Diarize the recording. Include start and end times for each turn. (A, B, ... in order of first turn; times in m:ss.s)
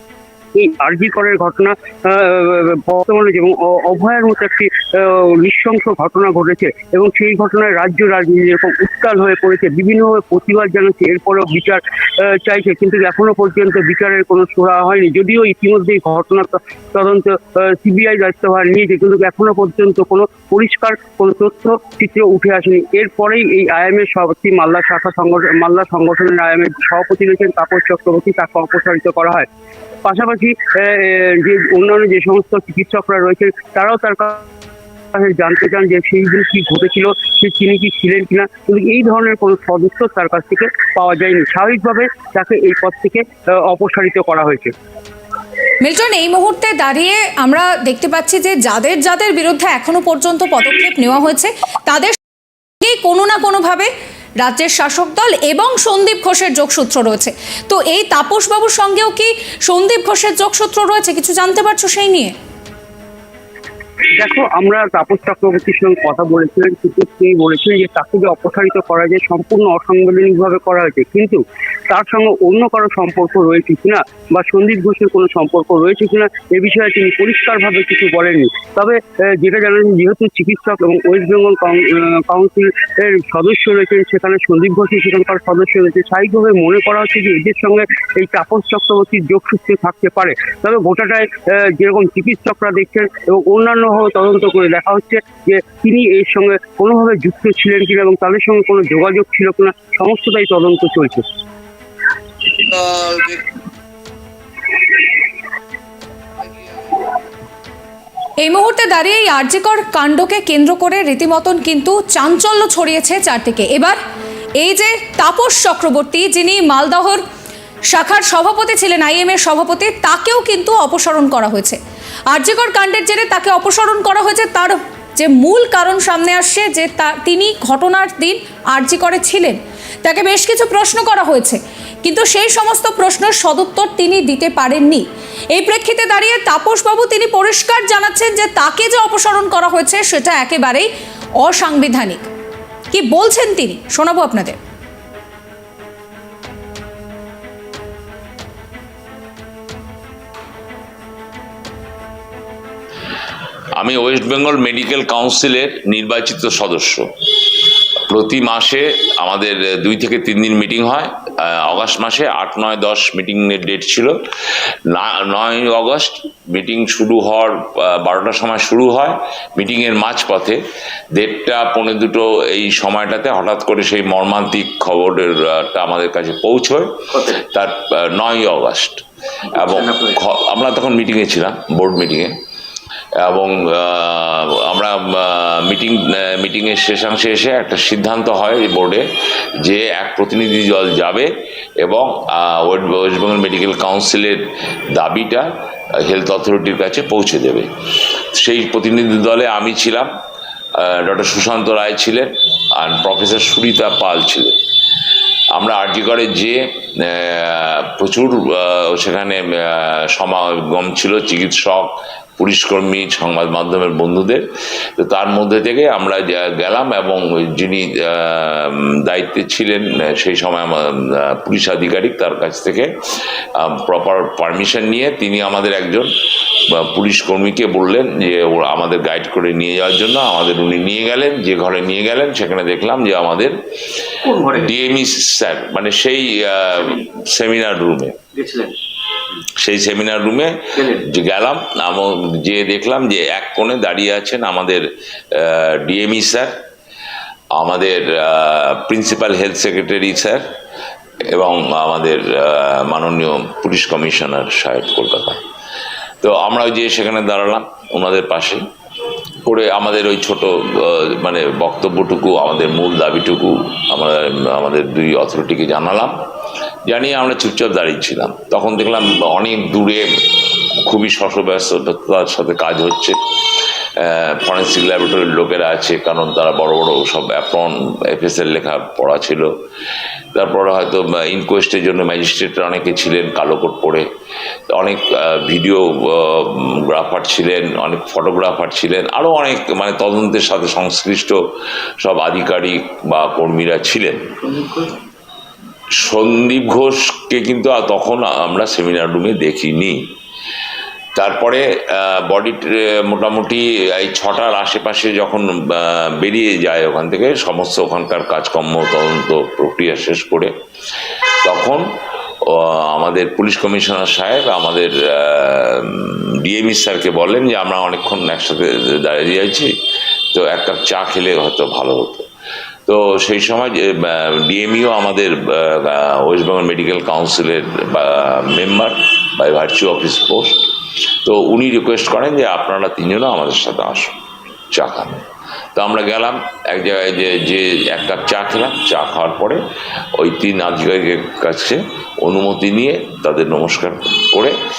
0:00.5-0:29.5 A
0:30.0-0:34.4 A
0:35.1-0:44.7 A
0:45.8-0:52.2 B
0:52.8-0:53.9 B
0:54.4-1:02.3 B
1:04.2-1:41.2 A
1:42.8-1:43.3 A
1:48.4-1:54.0 B
1:54.6-1:57.2 B
1:57.9-2:01.8 B
2:02.3-2:20.9 B
2:21.4-2:22.2 B
2:22.9-2:24.6 B
2:33.8-2:37.6 C
2:38.1-2:50.6 C
2:51.1-3:02.4 C
2:57.1-2:57.4 D
2:59.5-3:00.2 D
3:03.2-3:09.0 C
3:09.6-3:11.3 C
3:11.8-3:14.4 C
3:15.0-3:15.5 C
3:16.0-3:17.7 C
3:18.3-3:20.1 C
3:20.8-3:24.6 C
3:25.5-3:34.4 C
3:35.0-3:58.2 C
3:54.2-3:54.7 D
3:58.3-3:58.8 D
3:59.5-4:06.5 C
4:00.8-4:01.1 D
4:07.5-4:10.4 C
4:11.2-4:15.4 C
4:16.2-4:18.6 C
4:19.5-4:26.2 C
4:26.9-4:30.1 C
4:30.8-4:33.2 C
4:34.0-4:39.5 C
4:40.3-4:44.1 C
4:44.7-4:51.4 C
4:52.0-4:54.3 C
4:54.4-4:55.0 D
4:56.0-5:00.0 C
5:01.2-5:10.5 C
5:11.4-5:11.9 C
5:12.4-5:19.7 C
5:20.3-5:22.2 C
5:22.9-5:30.6 C
5:31.2-5:34.2 C
5:34.7-5:39.6 C
5:40.2-5:44.5 C